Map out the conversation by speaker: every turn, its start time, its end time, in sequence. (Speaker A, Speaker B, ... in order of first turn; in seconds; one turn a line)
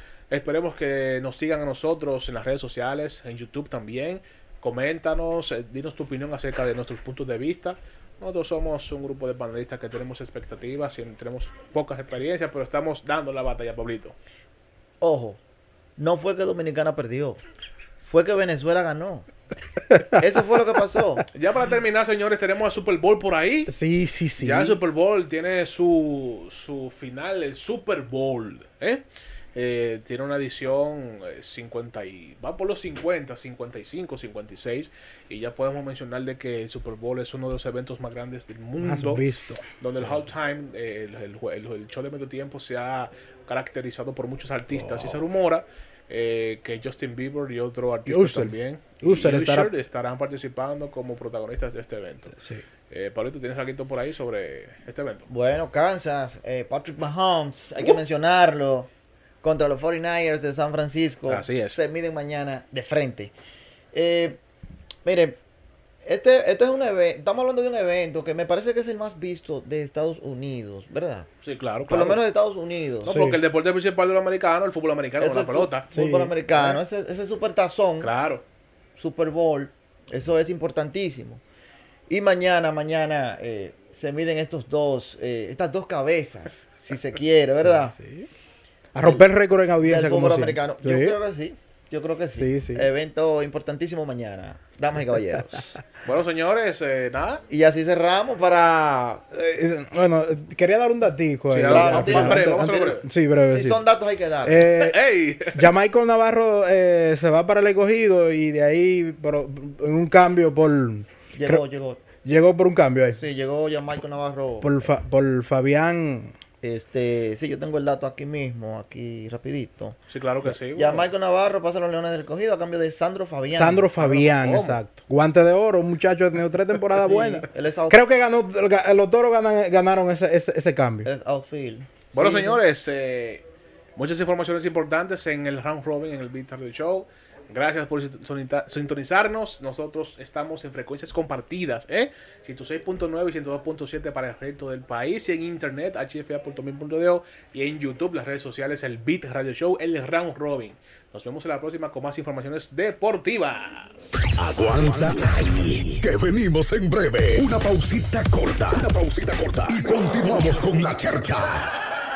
Speaker A: 0.3-14.2
Speaker B: 15.0-15.4
Speaker B: 16.0-17.4
Speaker B: 18.0-19.3
Speaker B: 20.2-21.2
Speaker A: 21.3-23.7
Speaker C: 23.7-24.8
Speaker A: 24.4-29.0
Speaker A: 29.6-39.2
Speaker C: 38.8-39.6
Speaker A: 39.8-52.4
Speaker C: 44.7-45.2
Speaker C: 48.1-49.7
Speaker C: 52.4-52.6
Speaker A: 52.9-55.3
Speaker B: 55.3-58.9
Speaker B: 59.4-63.3
Speaker A: 61.3-61.8
Speaker B: 63.9-64.4
Speaker B: 65.0-65.4
Speaker B: 66.0-71.3
Speaker A: 71.4-72.2
Speaker B: 71.9-73.2
Speaker A: 73.0-75.9
Speaker C: 73.1-73.4
Speaker B: 75.2-78.1
Speaker C: 75.9-76.3
Speaker A: 78.0-78.4
Speaker B: 79.0-81.4
Speaker B: 82.1-87.9
Speaker C: 87.6-88.3
Speaker C: 88.9-91.2
Speaker B: 89.0-89.3
Speaker B: 89.8-95.8
Speaker C: 92.3-92.9
Speaker A: 96.0-97.4
Speaker B: 97.5-99.2
Speaker C: 99.3-103.8
Speaker A: 101.5-103.0
Speaker B: 101.7-104.7
Speaker C: 104.5-105.0
Speaker A: 104.7-105.7
Speaker C: 105.5-111.6
Speaker B: 111.3-112.0
Speaker C: 112.2-113.2
Speaker B: 113.1-114.9
Speaker C: 114.6-116.3
Speaker B: 116.6-120.0
Speaker A: 120.1-121.1
Speaker B: 120.5-123.9
Speaker C: 123.5-131.1
Speaker A: 124.0-124.8
Speaker B: 127.0-128.0
Speaker B: 131.0-132.6
Speaker A: 132.1-133.4
Speaker A: 134.0-154.2
Speaker D: 154.3-161.7